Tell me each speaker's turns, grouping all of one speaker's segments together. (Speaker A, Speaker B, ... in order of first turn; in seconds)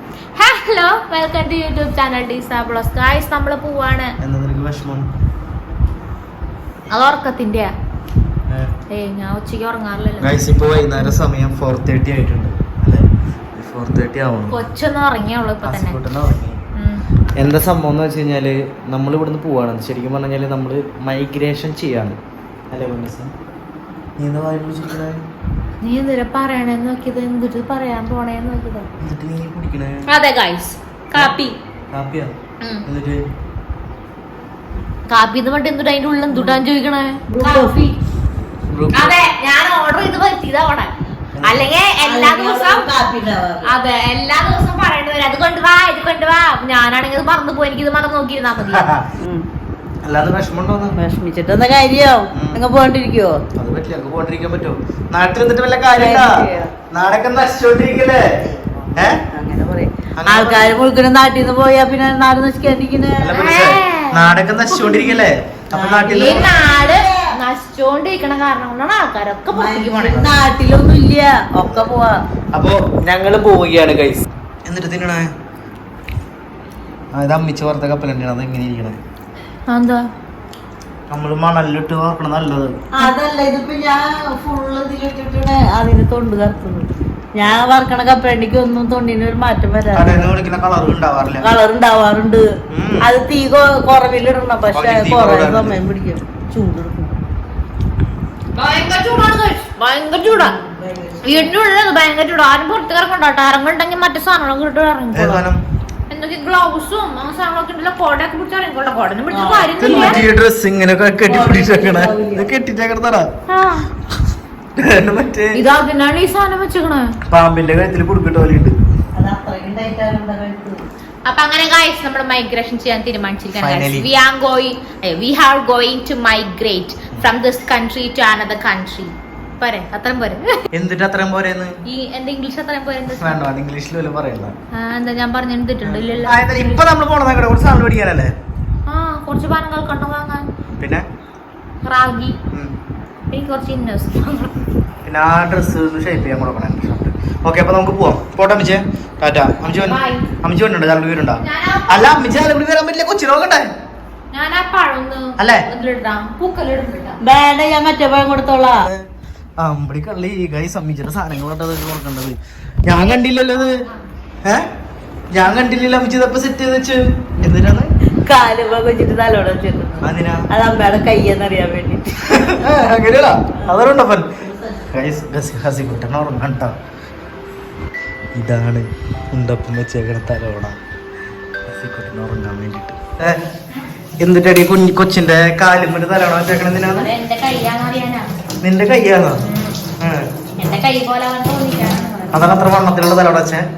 Speaker A: 0.3-4.2, 6.9-7.7, 8.9-10.4, 14.5-16.0, 16.8-17.0, 25.8-28.9, 30.1-31.6, 32.6-32.9, 35.1-37.9, 38.9-42.9, 43.6-48.9, 63.3-65.3, 66.1-70.2, 79.7-80.0, 98.5-100.5, 101.2-105.4, 106.1-110.2, 113.5-113.9, 115.5-117.2, 121.2-130.5, 131.9-133.4, 134.7-136.9, 138.9-140.5, 141.8-142.4, 143.3-144.5, 149.7-150.3, 151.4-152.1, 154.3-157.2, 162.9-164.1, 186.9-188.3, 189.4-189.8, 190.5-192.6
Speaker B: 4.2-5.0, 8.5-8.7, 10.2-14.6, 15.6-16.6, 17.4-22.2, 22.7-23.3, 24.2-25.2, 29.0-30.1, 31.9-32.3, 32.9-33.2, 38.7-39.2, 41.4-41.7, 48.6-49.0, 50.0-51.0, 52.3-52.6, 53.5-58.2, 59.0-59.2, 60.2-60.8, 63.2-66.5, 70.1-70.4, 72.5-75.3, 77.1-79.0, 81.1-82.8, 89.9-91.5, 92.7-93.1, 94.7-95.8, 105.1-105.6, 109.8-113.3, 114.8-115.6, 117.2-118.7, 123.5-124.1, 130.7-131.8, 133.1-134.5, 135.8-138.3, 140.8-141.0, 144.5-153.7, 155.4-155.7, 159.6-163.8, 164.4-164.7, 165.3-167.9, 170.0-170.5, 172.3-174.2, 174.9-176.7, 178.3-180.8, 181.7-183.4, 184.2-187.1, 188.6-189.4, 190.0-190.3, 192.3-193.6
Speaker C: 36.3-36.6, 37.3-37.9, 42.0-43.7, 49.2-49.5, 50.9-53.4, 55.9-56.7, 58.5-63.4, 65.7-67.2, 69.5-72.2, 82.9-90.3, 91.4-92.5, 93.0-97.2, 100.3-101.5, 109.3-110.3, 111.2-112.5, 119.2-120.9, 157.2-158.9, 168.2-172.1, 173.6-174.8